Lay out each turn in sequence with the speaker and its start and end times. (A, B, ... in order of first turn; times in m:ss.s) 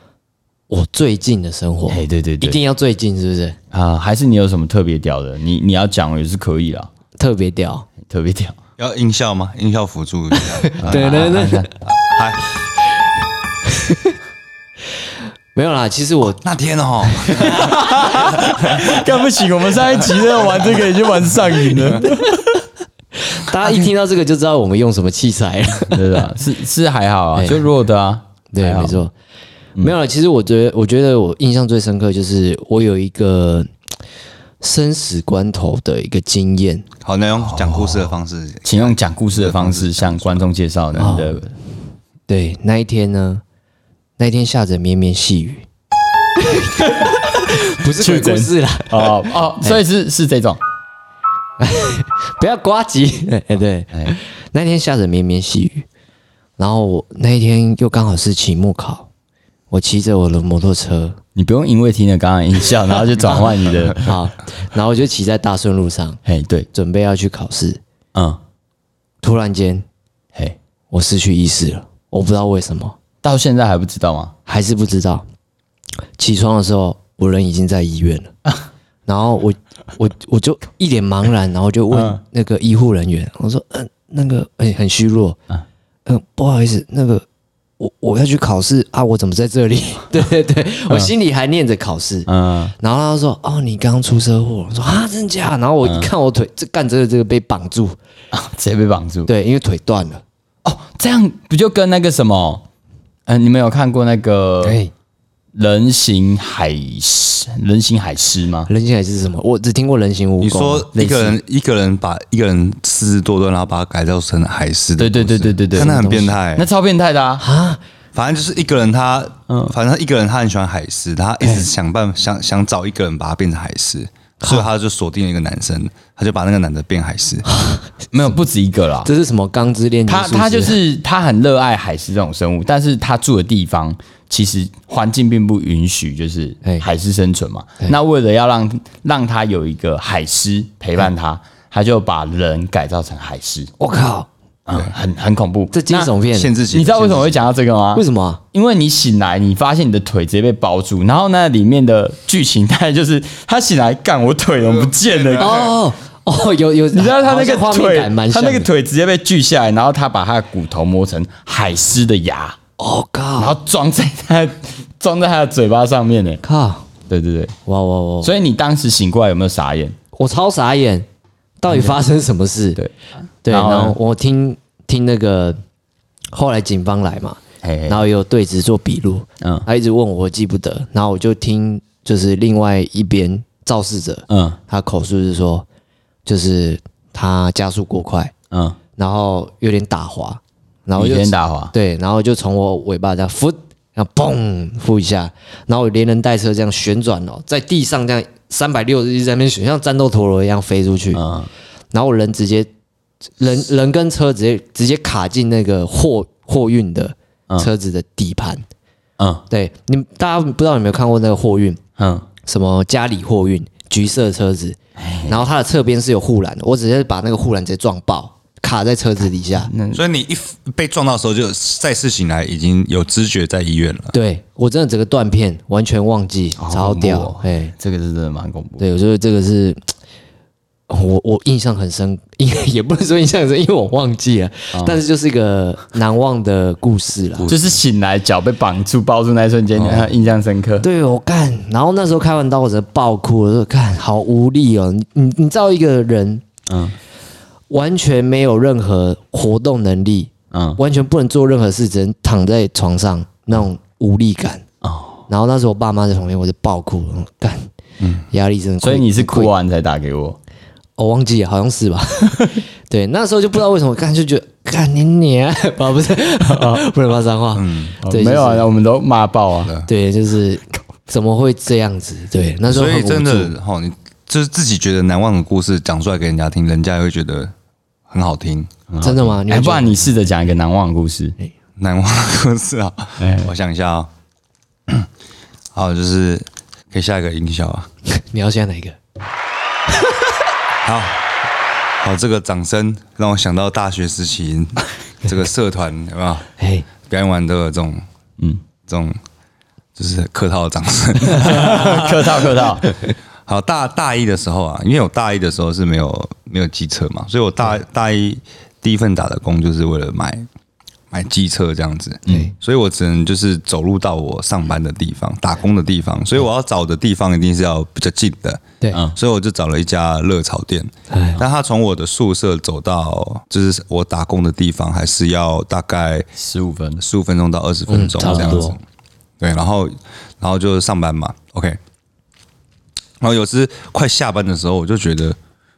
0:00.7-0:03.6 A
0:01.9-0:02.6 B
0:03.7-0:06.9 B
0:07.2-0:07.9 A
0:08.0-0:08.6 B
0:08.8-0:12.4 C
0:10.4-0:11.7 A
0:10.8-0:11.7 B
0:13.7-0:14.2 A
0:15.6-0:16.4 A
0:16.3-0:19.0 C
0:17.2-0:18.2 A
0:17.4-0:22.5 B
0:22.0-0:22.5 A
0:23.2-0:26.3 A
0:25.9-0:29.0 B
0:27.4-0:27.6 A
0:28.5-0:29.1 A
0:29.8-0:33.7 A
0:34.6-0:36.9 A
0:37.0-0:40.5 C
0:37.4-0:38.0 B
0:38.6-0:41.5 B
0:41.0-0:41.4 A
0:42.3-0:43.4 A
0:44.2-0:45.6 A
0:46.4-0:49.8 A
0:48.0-0:50.6 B
0:51.6-0:55.9 A
0:56.6-0:59.1 A
0:59.7-1:01.2 A
1:01.4-1:04.1 B
1:04.0-1:06.2 A
1:06.2-1:06.7 B
1:06.7-1:07.8 A
1:09.2-1:09.8 A
1:10.9-1:13.0 A
1:13.2-1:14.3 B
1:14.4-1:15.2 A
1:16.2-1:18.3 A
1:19.0-1:25.4 A
1:21.9-1:22.2 B
1:26.0-1:27.2 A
1:27.8-1:38.0 A
1:32.3-1:32.7 B
1:35.8-1:36.1 B
1:38.3-1:39.3 B
1:39.3-1:40.2 A
1:40.6-1:42.6 B
1:43.3-1:44.8 B
1:44.6-1:44.9 A
1:45.5-1:48.7 B
1:48.7-1:50.9 A
1:50.4-1:56.6 C
1:50.9-1:51.4 B
1:55.0-1:56.0 B
1:55.7-1:56.4 A
1:56.5-1:57.4 B
1:57.4-1:57.8 A
1:58.1-2:07.5 C
1:59.5-1:59.7 B
2:07.5-2:07.9 A
2:08.1-2:09.1 B
2:09.0-2:10.8 A
2:10.1-2:23.7 B
2:23.8-2:24.3 A
2:24.7-2:26.1 B
2:25.7-2:26.5 A
2:26.3-2:27.4 C
2:26.7-2:35.7 B
2:28.0-2:28.4 A
2:34.6-2:35.8 C
2:35.4-2:38.7 A
2:36.9-2:42.6 B
2:42.8-2:43.6 A
2:43.4-2:46.4 B
2:46.4-2:46.9 A
2:47.1-2:47.5 B
2:47.7-2:48.3 A
2:48.2-2:50.0 B
2:50.2-2:51.1 A
2:51.6-2:52.8 A
2:51.7-2:52.0 B
2:53.4-2:55.6 A
2:53.5-2:54.0 B
2:56.3-3:05.6 A
2:57.6-2:58.0 B
3:04.3-3:04.6 B
3:06.2-3:08.3 A
3:08.5-3:08.8 B
3:09.0-3:21.2 A
3:11.0-3:11.7 B
3:21.1-3:21.5 B
3:21.9-3:22.7 A
3:23.4-3:28.6 A
3:29.2-3:29.4 B
3:29.5-3:31.8 A
3:32.0-3:32.3 B
3:32.4-3:34.8 A
3:35.0-3:35.5 B
3:35.3-3:39.7 A
3:39.6-3:40.0 B
3:39.9-3:44.2 C
3:44.1-3:47.7 A
3:46.6-3:48.8 B
3:48.8-3:49.8 A
3:50.9-3:57.5 A
3:54.7-3:55.0 B
3:57.4-3:57.8 C
3:57.5-4:00.9 B
3:59.8-4:00.1 C
4:00.8-4:06.4 A
4:06.7-4:07.0 B
4:07.7-4:14.6 A
4:10.5-4:10.8 B
4:14.8-4:15.2 B
4:15.3-4:17.7 A
4:18.3-4:19.5 A
4:18.8-4:20.4 B
4:21.0-4:28.7 A
4:27.5-4:28.0 C
4:28.0-4:29.7 B
4:29.8-4:33.5 A
4:32.7-4:37.5 C
4:38.1-4:38.7 C
4:38.9-4:41.4 B
4:39.0-4:39.9 A
4:41.8-4:44.1 C
4:43.2-4:43.5 B
4:45.7-4:47.9 C
4:48.1-4:49.0 A
4:49.9-4:50.2 A
4:50.8-4:51.2 C
4:52.0-4:56.5 C
4:56.6-4:56.8 A
4:57.0-4:58.0 C
4:58.8-4:59.2 C
5:00.0-5:02.1 C
5:01.3-5:02.9 B
5:03.5-5:10.5 C
5:11.1-5:26.3 C
5:12.3-5:12.5 B
5:12.3-5:12.5 A
5:18.9-5:19.2 B
5:21.1-5:21.4 A
5:26.4-5:27.0 B
5:27.0-5:28.8 C
5:27.9-5:28.8 A
5:28.2-5:28.6 B
5:29.4-5:31.8 C
5:33.2-5:35.4 C